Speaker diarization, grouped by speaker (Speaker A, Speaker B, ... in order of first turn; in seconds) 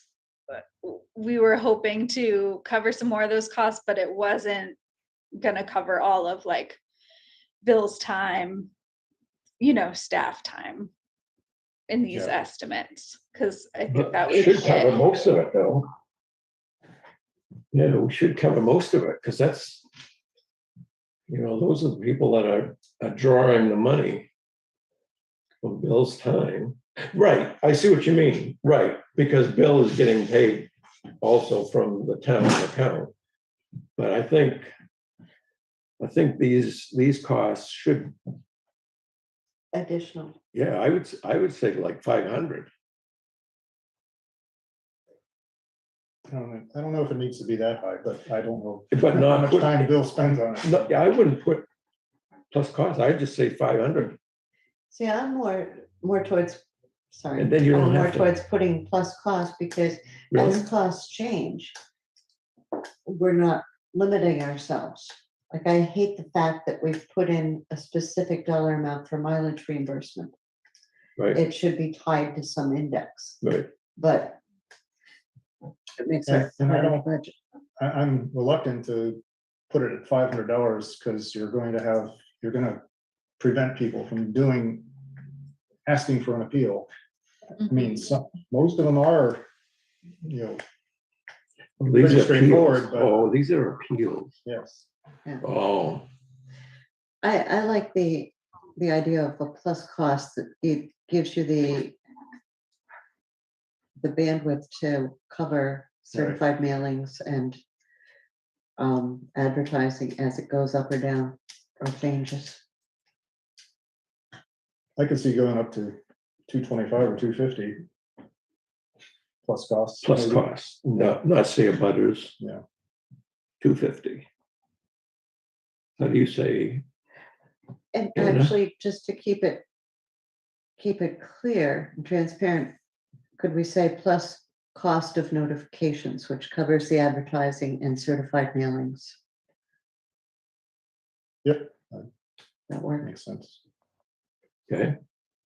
Speaker A: 0.5-4.8, 5.3-6.8, 7.6-8.7, 9.6-10.9, 11.9-15.0
Speaker B: 12.1-12.4, 46.3-50.8, 76.3-77.0, 77.8-82.8, 83.4-84.9, 85.8-86.9, 87.6-89.5, 90.2-90.6, 91.8-93.2, 94.4-94.9, 106.1-106.4, 115.0-117.8, 119.4-120.5, 141.4-142.1, 143.0-143.6
Speaker C: 13.9-15.9, 17.7-19.9, 21.3-24.3, 25.6-33.1, 34.0-34.7, 36.0-38.1, 40.5-42.7, 48.9-49.9, 50.6-51.7, 52.5-54.2, 57.4-58.3, 60.3-60.6, 73.4-73.7, 91.8-94.3, 95.4-96.1, 120.0-122.3, 123.6-124.3, 126.0-126.8, 128.2-128.5, 144.7-144.9
Speaker D: 39.7-40.4, 54.9-61.7, 63.0-70.3, 71.3-73.4, 74.0-74.4, 76.0-77.3, 97.2-102.0, 104.0-107.6, 108.8-112.6, 127.9-129.6, 130.8-132.7, 133.4-139.2, 142.7-143.1